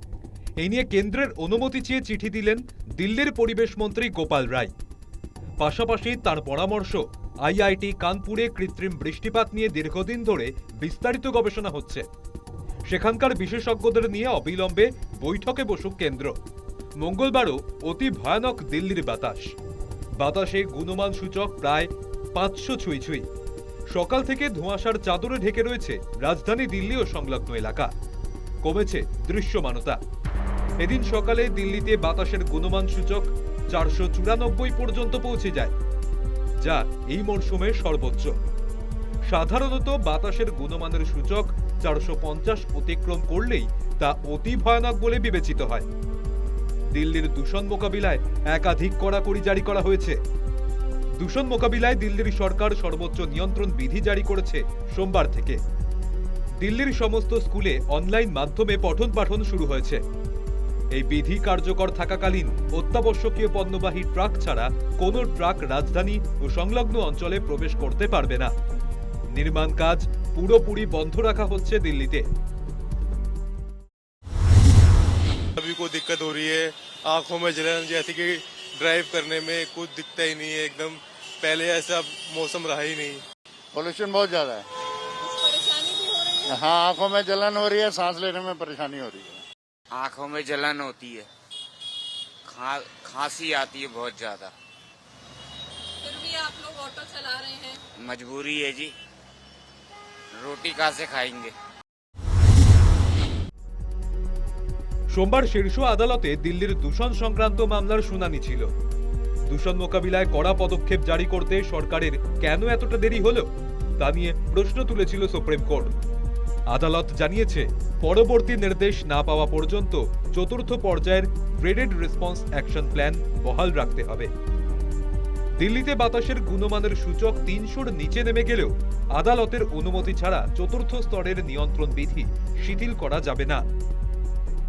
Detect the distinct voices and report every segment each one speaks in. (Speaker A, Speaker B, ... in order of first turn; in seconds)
Speaker A: 0.6-4.7, 5.6-12.1, 12.9-16.3, 17.0-19.5, 20.2-23.2, 23.9-27.9, 28.6-30.0, 30.8-35.7, 36.6-38.3, 39.2-45.9, 46.9-50.2, 51.2-55.6, 56.6-60.0, 60.9-68.5, 69.3-72.3, 105.1-108.7, 109.5-116.0, 116.7-124.3, 125.6-133.6
Speaker B: 75.6-83.2
Speaker C: 83.7-84.7, 86.5-89.4
Speaker D: 85.2-86.6, 96.0-97.8
Speaker E: 89.9-91.3, 92.4-94.5, 98.0-98.9, 100.3-101.5